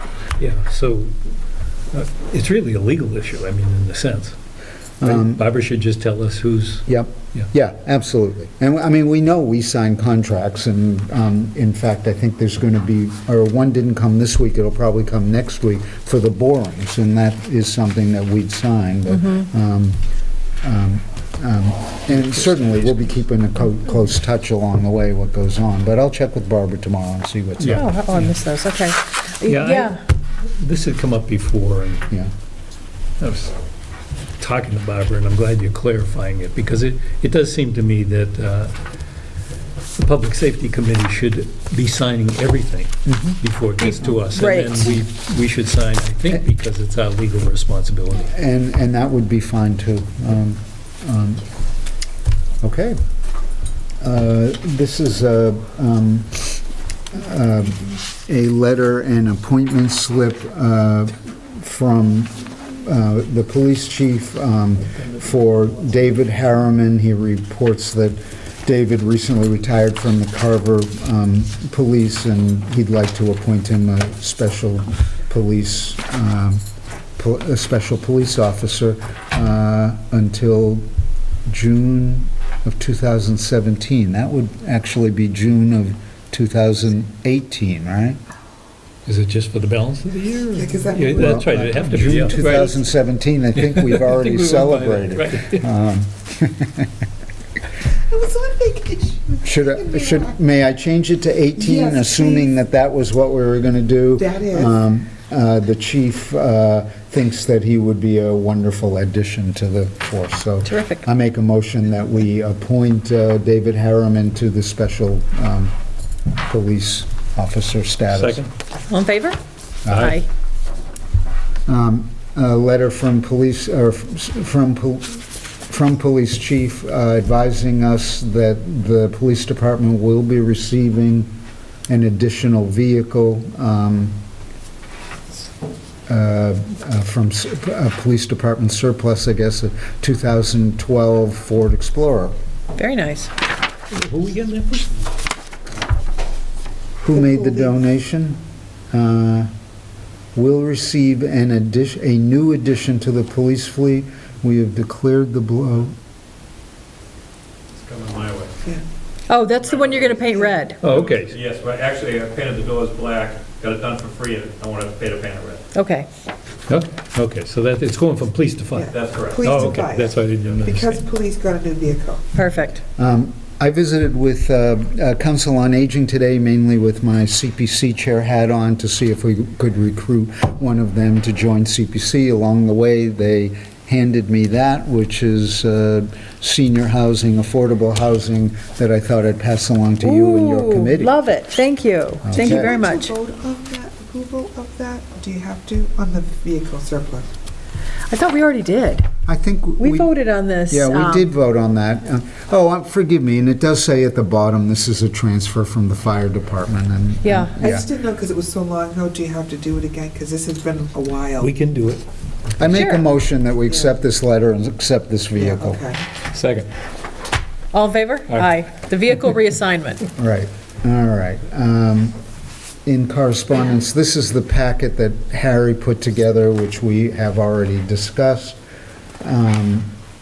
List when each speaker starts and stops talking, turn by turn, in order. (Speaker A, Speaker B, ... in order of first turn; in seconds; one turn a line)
Speaker A: 0.4-1.1
Speaker A: 1.9-4.3
Speaker B: 5.0-5.4
Speaker A: 5.0-7.4
Speaker B: 6.9-20.0
Speaker B: 20.6-27.9
Speaker A: 27.6-28.3
Speaker C: 27.6-30.0
Speaker A: 29.4-32.0
Speaker A: 33.2-33.5
Speaker A: 34.4-38.7
Speaker A: 40.0-48.3
Speaker B: 43.0-43.4
Speaker C: 43.8-44.9
Speaker B: 48.3-51.4
Speaker B: 52.6-53.0
Speaker B: 54.0-76.6
Speaker B: 77.2-80.8
Speaker B: 81.5-88.2
Speaker A: 89.0-92.7
Speaker D: 90.5-92.8
Speaker B: 91.1-96.9
Speaker A: 93.6-95.6
Speaker D: 98.0-100.3
Speaker B: 99.4-115.7
Speaker D: 101.6-102.5
Speaker D: 104.2-104.8
Speaker C: 110.7-111.0
Speaker B: 116.4-118.5
Speaker A: 118.1-118.5
Speaker C: 118.9-119.4
Speaker B: 119.8-120.1
Speaker A: 119.9-120.2
Speaker C: 119.9-120.2
Speaker B: 121.7-131.3
Speaker B: 131.9-134.2
Speaker B: 136.1-142.3
Speaker C: 142.8-143.3
Speaker A: 143.9-145.1
Speaker B: 147.0-148.4
Speaker D: 147.1-147.7
Speaker B: 148.9-149.5
Speaker B: 150.3-155.9
Speaker E: 157.7-158.6
Speaker C: 159.3-160.9
Speaker E: 159.6-160.3
Speaker A: 160.8-161.4
Speaker E: 160.8-165.7
Speaker C: 165.7-166.1
Speaker A: 166.7-171.1
Speaker D: 168.7-172.3
Speaker E: 168.8-169.6
Speaker C: 172.3-172.8
Speaker B: 173.0-191.2
Speaker C: 190.0-193.1
Speaker B: 192.2-192.7
Speaker D: 192.3-197.3
Speaker C: 198.1-199.1
Speaker B: 199.2-200.1
Speaker C: 199.8-201.3
Speaker B: 200.7-207.8
Speaker C: 207.2-207.5
Speaker D: 207.6-211.5
Speaker A: 211.4-212.0
Speaker B: 212.6-215.9
Speaker C: 212.6-213.1
Speaker D: 215.4-216.0
Speaker A: 216.3-216.7
Speaker C: 217.7-220.1
Speaker B: 220.1-222.2
Speaker B: 222.8-228.6
Speaker B: 229.2-229.9